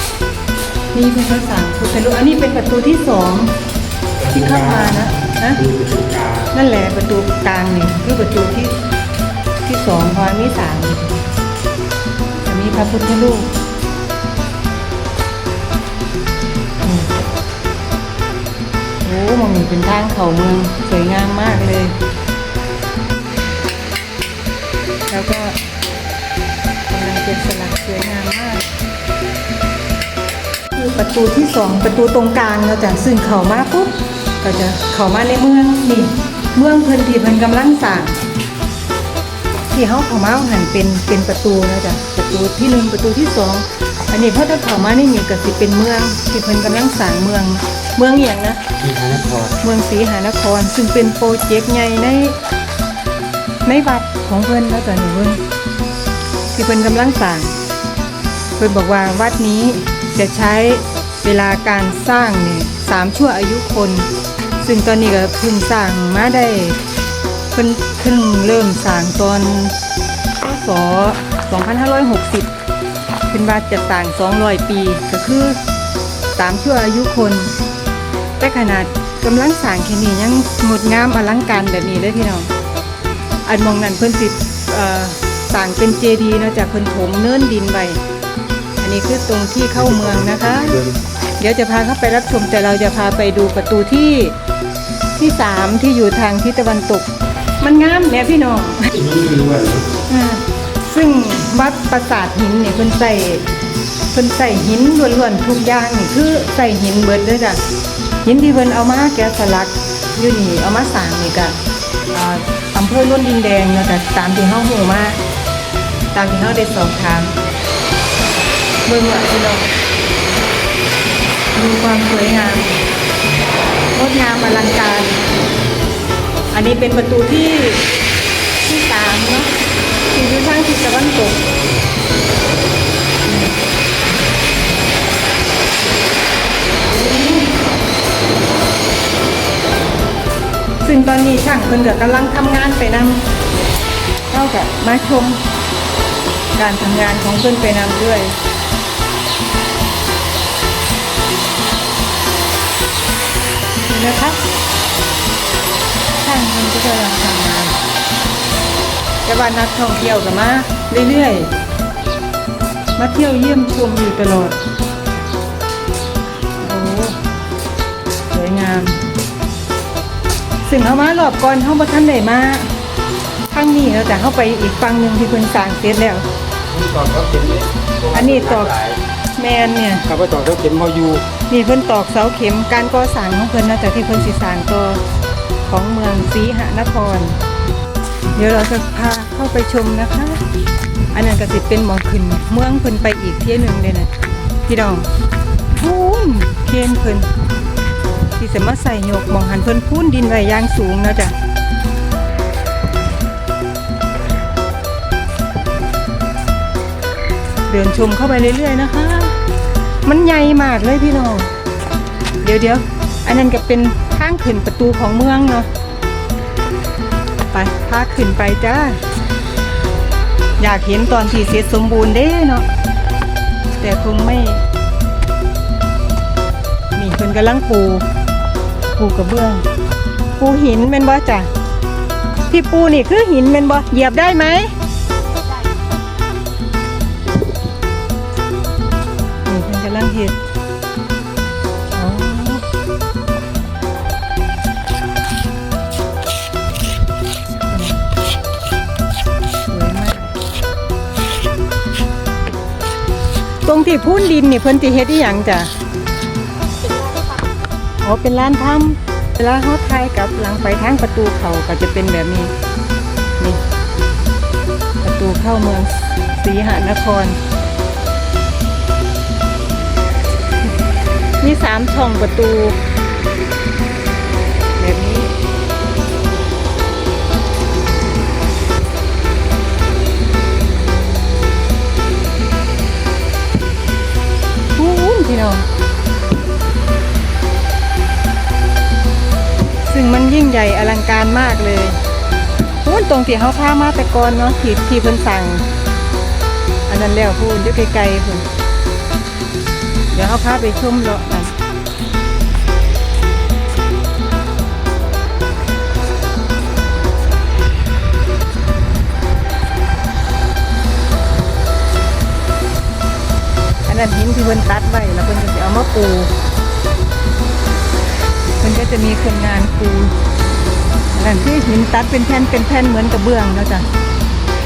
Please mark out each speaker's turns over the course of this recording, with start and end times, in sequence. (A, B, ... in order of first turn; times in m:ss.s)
0:00.9-0:03.6 A
0:04.2-0:06.5 B
0:04.3-0:05.6 A
0:06.5-0:08.8 A
0:09.6-0:11.1 A
0:12.5-0:13.5 A
0:16.8-0:17.1 A
0:19.0-0:21.9 A
0:25.1-0:25.6 A
0:26.9-0:28.6 A
0:30.8-0:38.2 A
0:39.7-0:48.6 A
0:48.8-0:49.6 B
0:49.6-0:52.4 A
0:53.6-0:55.4 A
0:56.5-0:57.6 A
0:58.6-1:04.1 A
1:04.6-1:06.8 A
1:07.5-1:09.8 A
1:10.4-1:12.5 A
1:13.3-1:15.6 A
1:16.4-1:17.5 A
1:18.4-1:22.5 A
1:23.5-1:28.0 A
1:28.8-1:30.8 A
1:29.7-1:31.0 B
1:31.4-1:34.4 A
1:35.2-1:37.1 A
1:37.6-1:38.9 A
1:38.9-1:39.9 B
1:40.1-1:43.5 A
1:44.1-1:47.6 A
1:48.2-1:51.6 A
1:52.1-1:55.2 A
1:56.1-1:57.4 A
1:58.9-1:59.7 A
2:01.6-2:02.8 A
2:03.9-2:05.3 A
2:06.5-2:07.9 A
2:08.6-2:09.5 A
2:10.1-2:11.5 A
2:16.8-2:17.5 A
2:20.8-2:23.3 A
2:24.3-2:25.4 A
2:26.6-2:28.4 A
2:33.9-2:34.4 A
2:36.2-2:37.8 A
2:39.2-2:41.5 A
2:43.0-2:44.6 A
2:46.6-2:47.2 A
2:48.3-2:49.0 A
2:50.7-2:52.7 A
2:53.5-2:56.2 A
2:56.7-2:59.0 B
2:58.1-2:58.7 A
2:59.4-3:00.0 A
3:00.1-3:01.3 B
3:01.5-3:05.0 A
3:05.7-3:07.4 A
3:08.4-3:10.4 A
3:11.1-3:14.1 A
3:14.7-3:15.1 A
3:15.8-3:17.3 A
3:18.4-3:21.3 A
3:27.7-3:29.4 A
3:30.0-3:31.5 A
3:32.4-3:35.7 A
3:37.5-3:39.0 A
3:40.6-3:42.7 A
3:43.8-3:44.6 A
3:47.0-3:48.0 A
3:48.9-3:49.6 A
3:50.4-3:51.5 A
3:52.5-3:54.7 A
3:59.5-4:00.4 A
4:01.9-4:02.6 A
4:07.7-4:08.0 A
4:09.7-4:10.3 A
4:13.6-4:15.7 A
4:18.0-4:22.5 A
4:25.0-4:27.4 A
4:31.4-4:32.8 A
4:34.8-4:35.3 A
4:44.8-4:45.7 A
4:49.9-4:52.0 A
4:52.8-4:55.6 A
4:56.9-4:58.5 A
5:00.1-5:01.6 A
5:13.9-5:16.3 A
5:18.6-5:20.1 A
5:21.1-5:23.9 A